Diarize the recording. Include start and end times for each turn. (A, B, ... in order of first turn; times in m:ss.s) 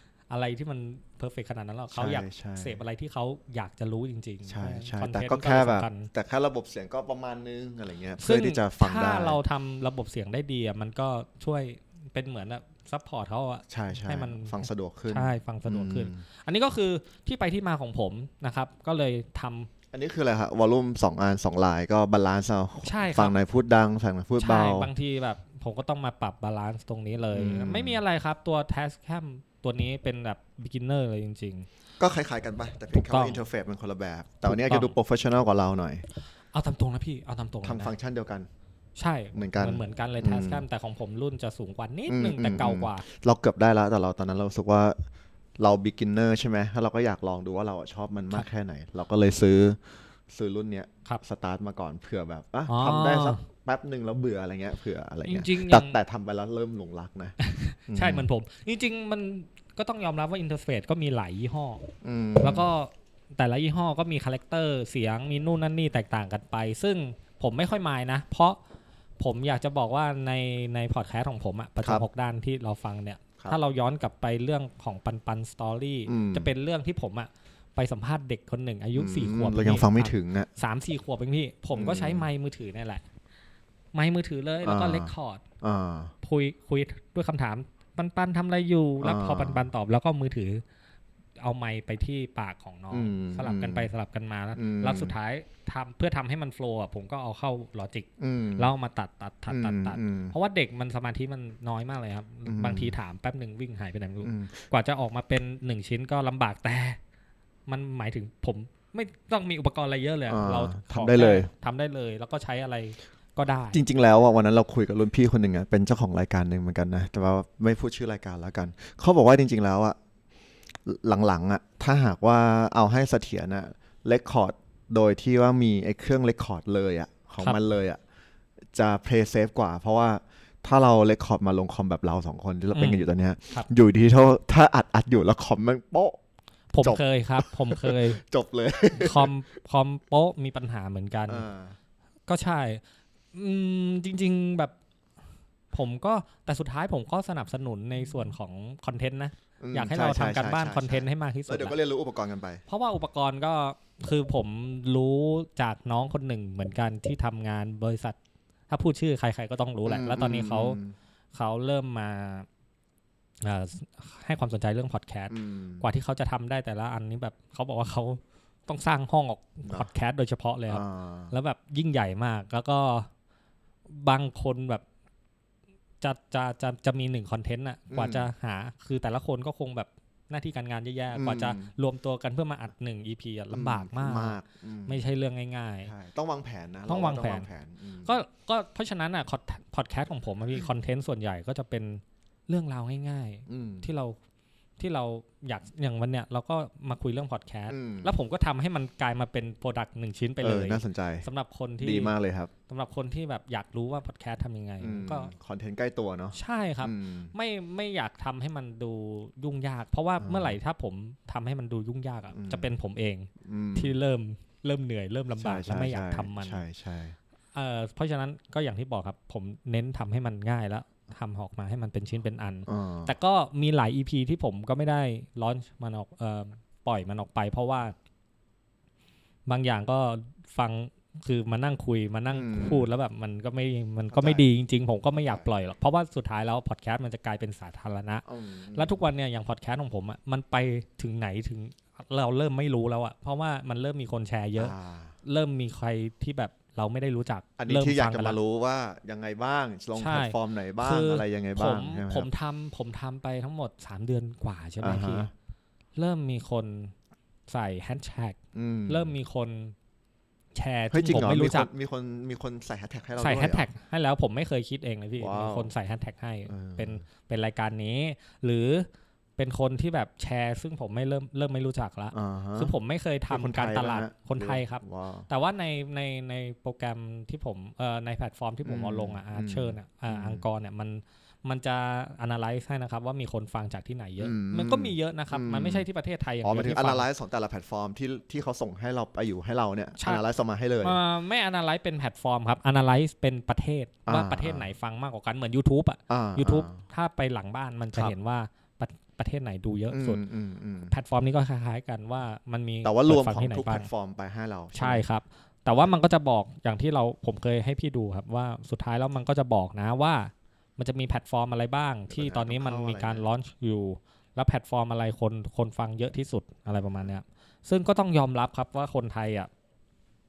0:00.3-0:06.1 A
0:01.9-0:02.8 B
0:04.4-0:09.4 B
0:08.2-0:19.7 A
0:13.7-0:16.2 B
0:19.9-0:24.9 B
0:22.8-0:23.4 A
0:24.4-0:31.7 A
0:27.3-0:28.0 B
0:32.0-0:36.0 B
0:32.9-0:33.4 A
0:34.4-0:35.0 A
0:36.5-0:37.9 A
0:37.6-0:38.5 B
0:39.0-0:43.0 A
0:39.3-0:40.6 B
0:42.1-0:45.0 B
0:45.6-0:57.4 B
0:52.7-0:53.4 A
0:55.2-0:56.0 A
0:57.4-1:01.9 A
0:57.9-0:58.3 B
1:02.0-1:02.7 B
1:02.4-1:08.6 A
1:09.2-1:23.0 A
1:16.0-1:16.5 B
1:19.0-1:20.5 B
1:21.7-1:22.3 B
1:23.9-1:25.4 A
1:24.6-1:26.1 B
1:26.2-1:30.6 A
1:29.0-1:29.6 B
1:31.4-1:47.0 A
1:32.9-1:33.9 B
1:34.5-1:35.2 B
1:38.2-1:38.7 B
1:39.5-1:40.3 B
1:42.4-1:42.9 B
1:44.2-1:44.6 B
1:47.7-1:53.8 A
1:50.3-1:51.5 B
1:53.7-2:00.0 B
2:00.8-2:08.0 B
2:08.7-2:16.2 B
2:12.7-2:13.7 A
2:16.7-2:18.2 A
2:16.8-2:19.3 B
2:18.9-2:21.4 A
2:21.3-2:21.8 B
2:22.3-2:22.8 A
2:23.3-2:24.7 A
2:25.7-2:31.8 A
2:29.6-2:32.6 B
2:32.7-2:38.2 A
2:38.7-2:40.8 A
2:39.8-2:40.9 B
2:41.3-2:42.5 A
2:43.4-2:53.1 A
2:45.3-2:45.8 B
2:50.7-2:51.3 B
2:53.9-2:54.8 A
2:56.0-3:05.9 A
2:57.9-2:58.3 B
3:01.1-3:01.7 B
3:03.5-3:05.0 B
3:05.8-3:08.2 B
3:06.9-3:07.5 A
3:08.0-3:14.2 A
3:13.5-3:13.9 B
3:14.8-3:22.1 A
3:17.7-3:18.1 B
3:20.4-3:21.2 B
3:21.8-3:22.5 B
3:22.7-3:25.3 A
3:24.8-3:27.3 B
3:26.3-3:36.6 A
3:30.2-3:30.5 B
3:32.3-3:32.7 B
3:33.4-3:33.9 B
3:35.4-3:37.2 B
3:37.5-3:47.9 A
3:42.7-3:43.1 B
3:49.5-4:08.4 A
3:52.3-3:52.9 B
3:54.1-3:54.4 B
3:55.1-3:55.5 B
3:58.2-3:58.9 B
4:04.6-4:05.2 B
4:07.6-4:12.3 B
4:10.0-4:15.3 A
4:14.8-4:15.3 B
4:16.0-4:16.9 A
4:17.5-4:19.7 A
4:18.5-4:19.1 B
4:20.5-4:21.7 A
4:20.9-4:23.7 B
4:23.2-4:47.1 A
4:25.2-4:25.7 B
4:26.5-4:27.0 B
4:32.1-4:32.7 B
4:33.3-4:35.3 B
4:38.6-4:40.4 B
4:44.2-4:45.8 B
4:46.4-4:51.0 B
4:50.0-4:50.2 A
4:50.8-5:00.2 A
4:54.1-4:54.7 B
4:56.1-4:56.8 B
4:59.9-5:00.9 B
5:00.9-5:03.9 A
5:02.8-5:05.0 B
5:04.7-5:19.5 A
5:12.1-5:13.2 B